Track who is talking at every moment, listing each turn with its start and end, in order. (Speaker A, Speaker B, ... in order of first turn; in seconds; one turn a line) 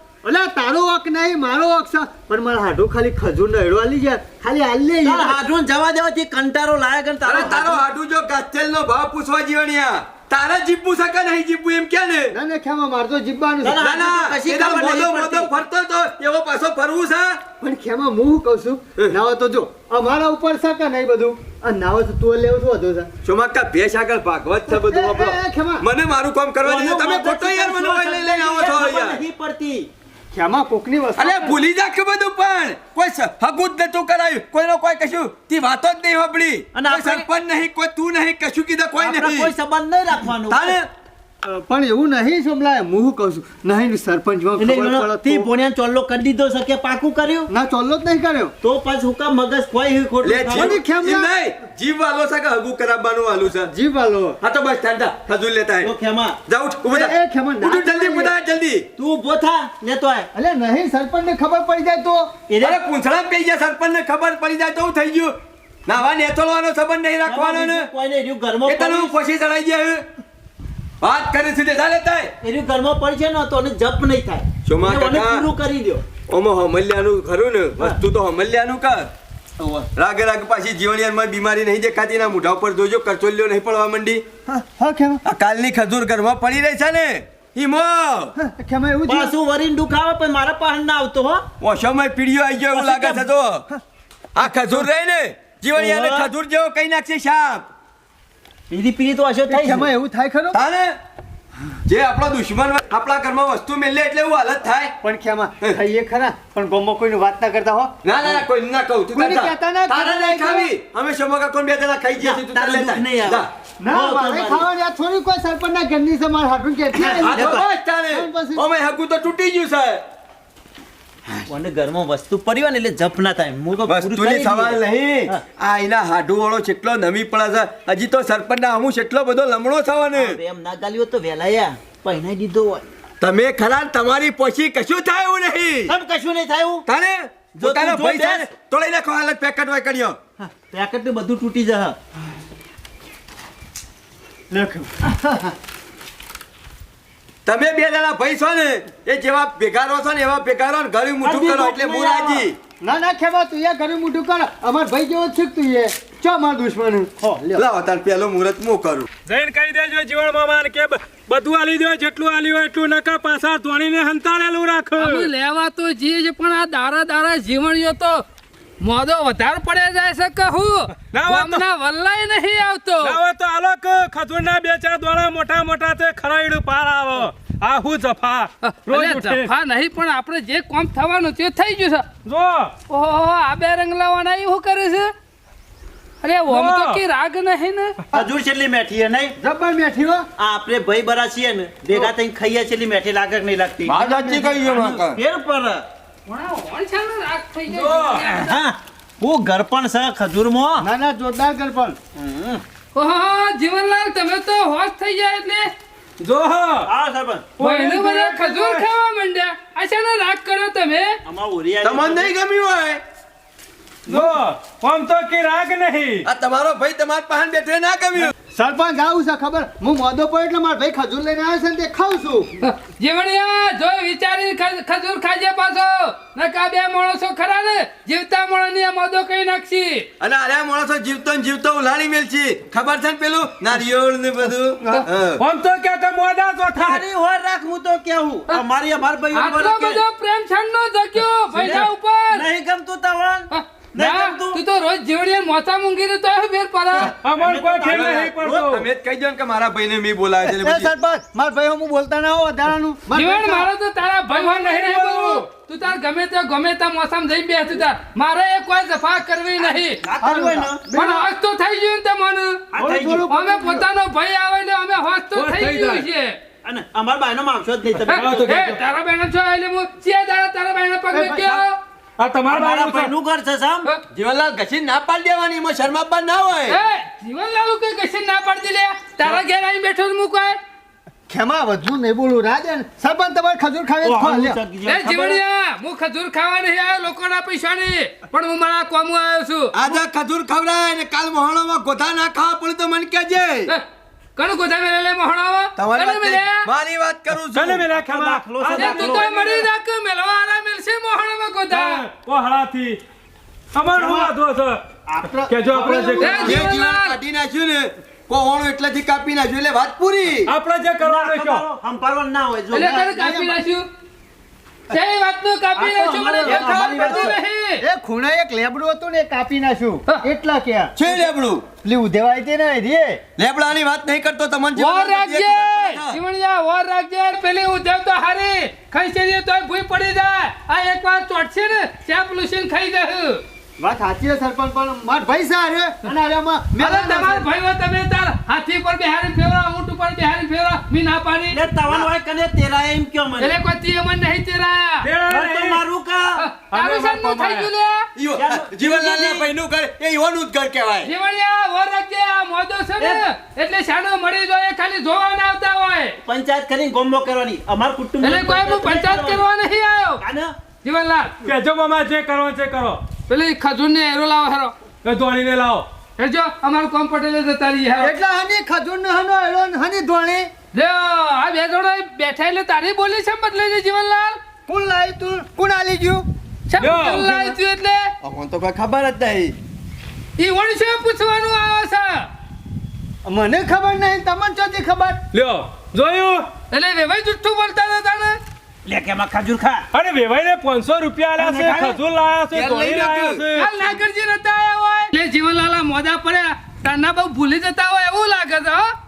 Speaker A: 0.2-5.4
Speaker B: 5.0-7.8
Speaker C: 7.2-12.3
Speaker A: 12.3-13.8
Speaker B: 13.6-15.5
Speaker C: 13.8-17.4
Speaker A: 17.6-23.1
Speaker C: 23.2-29.2
Speaker A: 24.7-25.9
Speaker B: 26.6-29.9
Speaker A: 30.3-31.6
Speaker C: 31.2-39.5
Speaker B: 36.7-37.3
Speaker B: 39.0-40.8
Speaker C: 40.5-40.9
Speaker A: 41.4-45.5
Speaker B: 44.6-47.5
Speaker A: 47.5-48.5
Speaker B: 48.6-50.8
Speaker C: 50.2-53.7
Speaker A: 50.5-51.3
Speaker A: 53.7-54.4
Speaker C: 54.4-55.9
Speaker B: 55.8-56.4
Speaker C: 56.5-58.9
Speaker A: 56.9-58.3
Speaker B: 59.0-60.3
Speaker A: 60.3-62.4
Speaker B: 62.5-62.8
Speaker C: 62.6-65.3
Speaker C: 65.9-67.9
Speaker B: 67.2-69.1
Speaker C: 68.7-70.0
Speaker C: 71.0-72.3
Speaker B: 72.4-76.0
Speaker C: 74.7-75.5
Speaker C: 76.3-79.1
Speaker B: 79.6-79.9
Speaker C: 80.0-84.2
Speaker A: 84.5-85.2
Speaker C: 85.2-88.3
Speaker A: 88.3-89.3
Speaker B: 89.0-91.5
Speaker C: 91.6-93.7
Speaker B: 92.8-93.2
Speaker C: 94.3-97.7
Speaker B: 95.7-96.3
Speaker B: 98.7-99.9
Speaker A: 99.5-100.6
Speaker C: 100.5-100.9
Speaker C: 101.9-104.9
Speaker A: 105.0-107.9
Speaker C: 108.0-113.5
Speaker A: 109.1-110.7
Speaker B: 112.2-114.7
Speaker A: 113.8-118.7
Speaker B: 116.9-117.6
Speaker C: 117.2-120.0
Speaker B: 121.5-125.4
Speaker C: 123.9-130.4
Speaker B: 130.1-132.8
Speaker C: 133.2-135.9
Speaker B: 135.9-136.8
Speaker C: 136.9-140.2
Speaker B: 137.6-138.5
Speaker B: 140.4-142.0
Speaker A: 144.5-145.5
Speaker C: 147.4-152.6
Speaker B: 151.2-152.4
Speaker A: 152.8-157.7
Speaker C: 157.6-159.1
Speaker D: 159.3-165.3
Speaker E: 165.0-168.2
Speaker E: 168.8-173.2
Speaker D: 171.1-171.6
Speaker D: 173.0-179.5
Speaker E: 178.6-182.1
Speaker D: 182.2-182.7
Speaker E: 182.9-185.1
Speaker E: 186.2-187.9
Speaker D: 186.5-187.0
Speaker B: 188.1-189.3
Speaker A: 189.4-190.3
Speaker B: 190.4-195.8
Speaker C: 193.8-195.2
Speaker E: 196.3-198.5
Speaker D: 197.7-198.3
Speaker B: 198.4-200.9
Speaker A: 200.8-202.0
Speaker B: 202.1-202.6
Speaker E: 202.9-205.7
Speaker D: 206.2-206.9
Speaker B: 206.8-207.5
Speaker D: 207.6-208.8
Speaker E: 207.6-211.2
Speaker B: 211.2-212.3
Speaker C: 211.8-213.0
Speaker D: 214.1-216.3
Speaker C: 216.2-218.3
Speaker A: 218.5-222.5
Speaker E: 222.6-230.1
Speaker C: 230.2-235.4
Speaker D: 235.4-237.0
Speaker B: 236.7-240.0
Speaker E: 239.3-242.5
Speaker B: 241.5-244.6
Speaker E: 243.5-247.1
Speaker B: 246.9-248.8
Speaker D: 247.2-248.8
Speaker C: 247.9-250.9
Speaker A: 250.4-253.7
Speaker E: 253.1-260.0
Speaker D: 254.3-255.4
Speaker B: 260.0-260.8
Speaker A: 260.2-261.2
Speaker E: 260.9-262.7
Speaker B: 262.7-263.3
Speaker A: 262.8-263.8
Speaker E: 263.3-266.4
Speaker D: 265.3-266.0
Speaker B: 266.6-268.8
Speaker D: 268.1-268.8
Speaker E: 268.1-271.8
Speaker A: 271.1-271.6
Speaker D: 272.2-273.1
Speaker B: 272.5-273.9
Speaker C: 274.1-276.8
Speaker E: 276.7-280.6
Speaker A: 281.3-284.6
Speaker B: 284.0-285.4
Speaker E: 284.8-289.7
Speaker C: 289.7-293.7
Speaker E: 294.4-296.7
Speaker C: 295.8-297.8
Speaker D: 297.5-299.6
Speaker B: 297.9-299.6
Speaker E: 298.8-302.0
Speaker D: 301.7-303.0
Speaker D: 303.7-304.8
Speaker A: 304.0-304.3
Speaker A: 305.1-306.7
Speaker D: 305.5-306.5
Speaker E: 306.2-307.2
Speaker C: 306.4-310.5
Speaker D: 310.5-311.6
Speaker B: 311.0-313.2
Speaker E: 312.7-313.8
Speaker A: 312.8-313.6
Speaker E: 314.9-317.8
Speaker B: 315.8-317.4
Speaker A: 316.4-321.2
Speaker C: 320.9-321.7
Speaker A: 321.8-323.2
Speaker C: 323.4-326.2
Speaker E: 324.7-333.4
Speaker A: 333.8-337.4
Speaker E: 336.8-341.6
Speaker B: 341.5-343.6
Speaker E: 343.4-345.1
Speaker D: 345.0-345.8
Speaker B: 345.3-346.4
Speaker E: 346.4-348.1
Speaker D: 346.7-347.7
Speaker C: 348.1-351.1
Speaker B: 348.4-349.5
Speaker E: 351.0-356.2
Speaker B: 356.2-359.4
Speaker E: 358.2-360.2
Speaker B: 360.2-360.5
Speaker E: 360.8-361.4
Speaker D: 361.4-363.0
Speaker E: 363.3-364.7
Speaker D: 365.0-365.8
Speaker E: 366.2-368.1
Speaker A: 368.0-370.5
Speaker E: 370.7-374.4
Speaker A: 374.7-376.2
Speaker E: 376.7-378.1
Speaker D: 376.8-377.4
Speaker A: 377.3-377.5
Speaker C: 378.2-379.5
Speaker E: 380.4-382.3
Speaker A: 383.2-385.2
Speaker D: 385.3-386.5
Speaker E: 386.7-388.4
Speaker B: 388.9-389.9
Speaker D: 389.9-393.7
Speaker A: 391.4-391.9
Speaker C: 392.5-393.4
Speaker E: 393.6-398.9